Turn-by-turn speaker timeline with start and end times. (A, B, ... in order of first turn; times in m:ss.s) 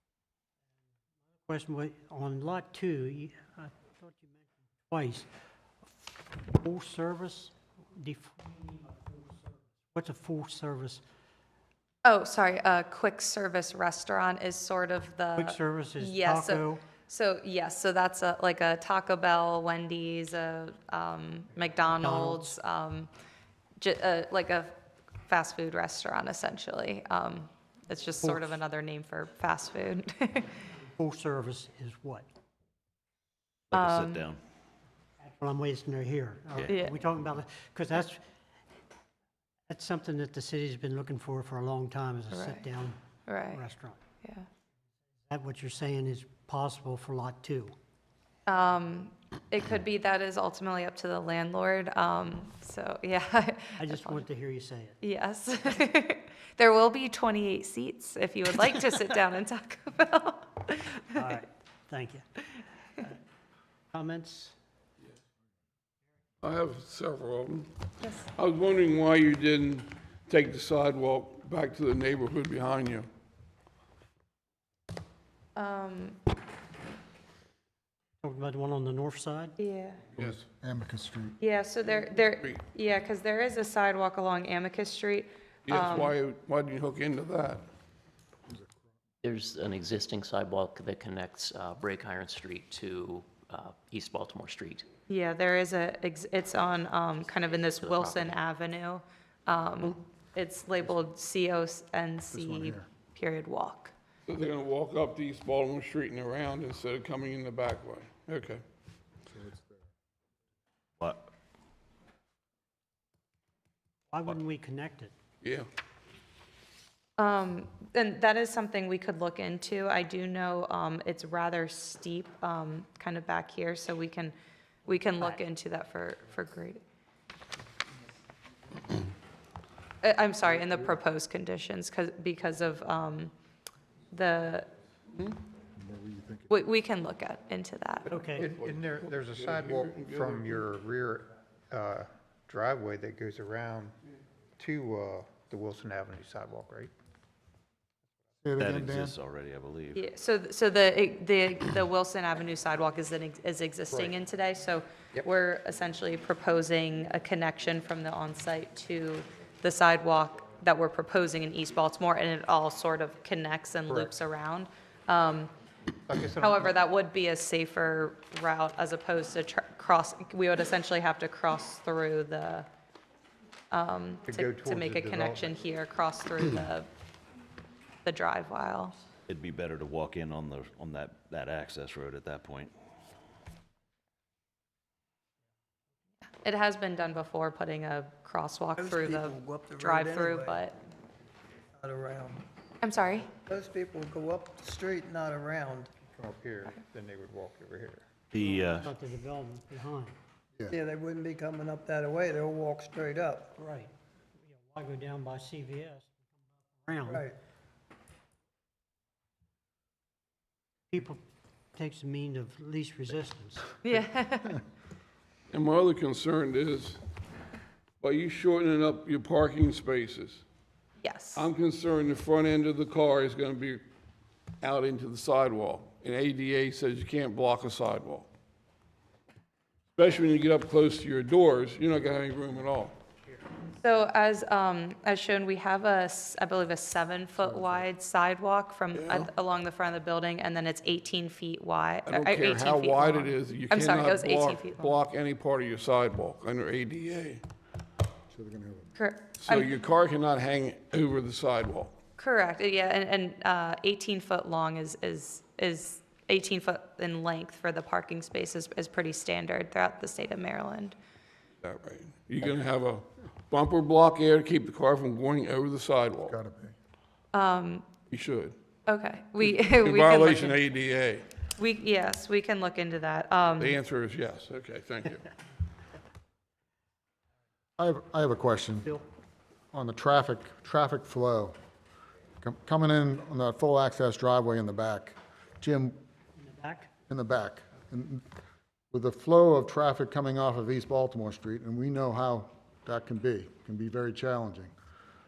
0:01.5-0:05.3 A
0:05.8-0:11.0 A
0:12.0-0:23.1 B
0:15.3-0:16.8 A
0:22.0-0:22.6 A
0:23.8-0:24.7 B
0:25.3-0:30.6 B
0:28.2-0:28.6 A
0:30.9-0:32.2 A
0:33.7-0:34.4 C
0:33.7-0:34.3 B
0:35.2-0:38.2 A
0:36.7-0:37.0 B
0:39.7-0:44.0 A
0:42.3-0:42.6 B
0:43.3-0:43.6 B
0:45.3-0:47.7 A
0:48.4-0:54.2 B
0:53.8-0:55.0 A
0:55.0-1:01.0 B
1:01.1-1:02.2 A
1:03.9-1:04.5 A
1:06.4-1:07.7 D
1:08.0-1:08.3 B
1:08.4-1:13.1 D
1:15.6-1:16.2 B
1:18.2-1:19.6 A
1:19.6-1:20.0 B
1:20.2-1:20.4 D
1:20.2-1:21.4 E
1:21.4-1:26.1 B
1:22.4-1:22.6 D
1:25.7-1:27.6 D
1:29.2-1:34.8 F
1:35.1-1:43.9 B
1:37.4-1:38.4 F
1:42.3-1:42.9 E
1:44.3-1:48.6 D
1:49.3-1:49.9 E
1:51.0-1:51.3 C
1:54.1-1:55.1 A
1:55.4-1:55.7 D
1:57.2-2:04.3 B
2:04.8-2:06.8 B
2:10.0-2:13.3 B
2:14.1-2:14.7 B
2:15.7-2:16.5 E
2:16.5-2:18.2 B
2:18.1-2:18.4 A
2:18.2-2:23.9 G
2:18.4-2:20.7 D
2:24.6-2:26.9 G
2:28.4-2:29.2 E
2:28.6-2:30.1 C
2:29.9-2:45.5 B
2:43.9-2:44.1 G
2:46.1-2:46.7 G
2:46.4-2:52.7 B
2:53.7-2:56.9 B
2:54.3-2:55.5 G
2:58.0-2:59.0 B
2:59.3-3:02.7 C
3:06.4-3:10.8 B
3:08.8-3:10.6 H
3:11.8-3:12.4 H
3:12.8-3:13.3 B
3:13.5-3:15.9 H
3:16.1-3:18.1 G
3:18.3-3:18.9 C
3:18.8-3:20.2 A
3:20.7-3:23.5 H
3:23.6-3:27.3 A
3:27.1-3:27.3 H
3:30.9-3:31.2 A
3:31.7-3:33.7 A
3:33.8-3:34.6 B
3:35.5-3:37.0 D
3:38.0-3:40.4 D
3:41.0-3:41.5 B
3:41.4-3:43.8 D
3:44.6-3:48.3 D
3:50.0-3:53.0 D
3:53.8-4:04.9 B
3:57.4-3:57.8 E
3:58.9-3:59.3 D
4:02.0-4:07.4 D
4:08.3-4:08.9 E
4:09.0-4:09.7 B
4:09.4-4:11.9 D
4:12.2-4:20.9 B
4:21.6-4:26.4 D
4:26.2-4:26.7 E
4:27.3-4:27.9 B
4:28.1-4:28.5 D
4:28.9-4:30.6 B
4:29.4-4:31.2 D
4:31.6-4:33.8 B
4:33.6-4:35.2 D
4:37.8-4:38.9 E
4:39.7-4:41.6 E
4:42.4-4:46.0 E
4:46.4-4:46.9 A
4:47.1-4:48.2 E
4:48.9-4:54.7 E